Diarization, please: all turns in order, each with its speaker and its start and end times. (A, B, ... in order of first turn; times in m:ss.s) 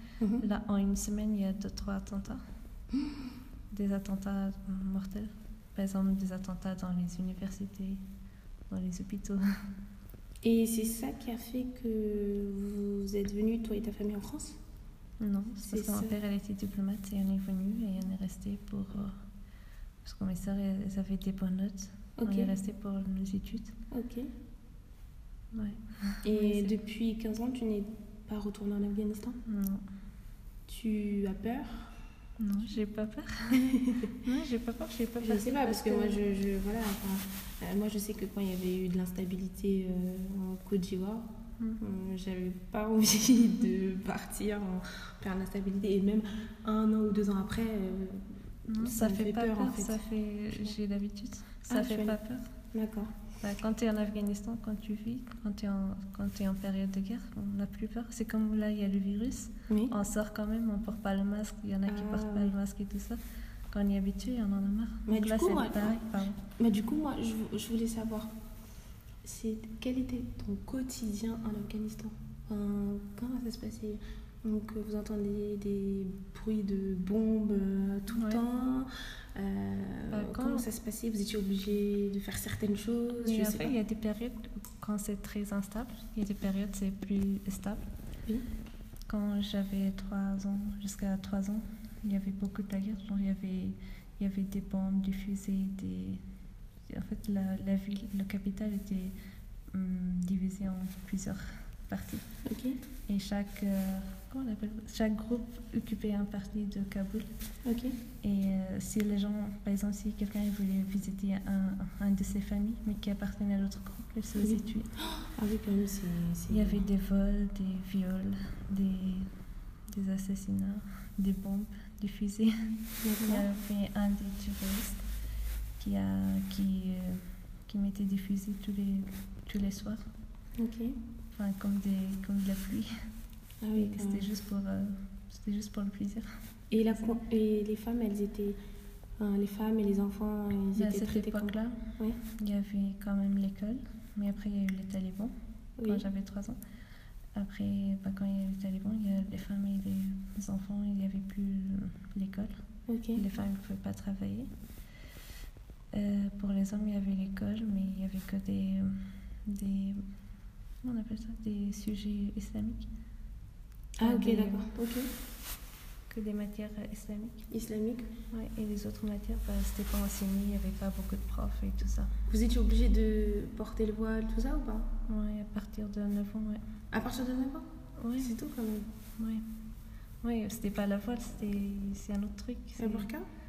0:00.2-0:00.5 A
0:00.4-0:02.4 B
0:03.7-0:08.0 B
0:08.7-0:09.4 B
0:10.4-0:14.6 A
0:15.2-0:19.2 B
0:15.6-0:16.2 A
0:20.0-0:23.7 B
0:22.2-0:22.5 A
0:23.9-0:24.3 A
0:25.5-0:26.8 B
0:26.2-0:29.4 A
0:29.5-0:29.8 B
0:30.7-0:31.9 A
0:32.4-0:36.2 B
0:33.6-0:34.2 A
0:35.2-0:41.3 A
0:41.8-0:50.0 A
0:48.7-0:52.4 B
0:51.7-0:52.2 A
0:52.7-0:53.1 A
0:53.4-1:03.2 B
0:59.7-0:59.9 A
1:01.9-1:02.5 A
1:03.7-1:06.4 B
1:05.1-1:06.0 A
1:06.6-1:08.3 A
1:09.2-1:23.8 A
1:18.1-1:18.4 B
1:20.1-1:20.7 B
1:23.2-1:27.8 B
1:29.1-1:36.2 B
1:36.9-1:39.2 B
1:39.7-1:42.3 B
1:42.5-1:42.8 A
1:43.1-1:47.3 B
1:47.7-1:48.0 A
1:48.2-1:54.9 B
1:54.4-1:56.8 A
1:56.5-1:59.3 B
1:59.9-2:02.5 B
2:03.0-2:03.5 A
2:03.2-2:05.0 B
2:05.8-2:10.0 B
2:10.6-2:11.0 A
2:11.3-2:12.9 B
2:13.6-2:14.3 A
2:13.8-2:16.3 B
2:16.7-2:18.6 A
2:19.2-2:22.2 A
2:20.8-2:25.3 B
2:25.8-2:26.0 A
2:25.8-2:26.6 B
2:27.4-2:32.5 B
2:32.9-2:33.2 A
2:33.2-2:34.5 B
2:35.9-2:40.0 B
2:40.8-2:42.9 B
2:44.0-2:45.1 A
2:44.0-2:44.7 B
2:46.1-2:47.5 B
2:47.5-2:48.1 A
2:48.3-2:52.1 B
2:52.3-2:54.9 A
2:55.1-2:56.6 B
2:56.9-2:57.7 A
2:58.0-2:58.4 B
2:58.2-2:58.9 A
2:59.2-2:59.4 B
3:00.2-3:03.1 B
3:02.8-3:03.3 A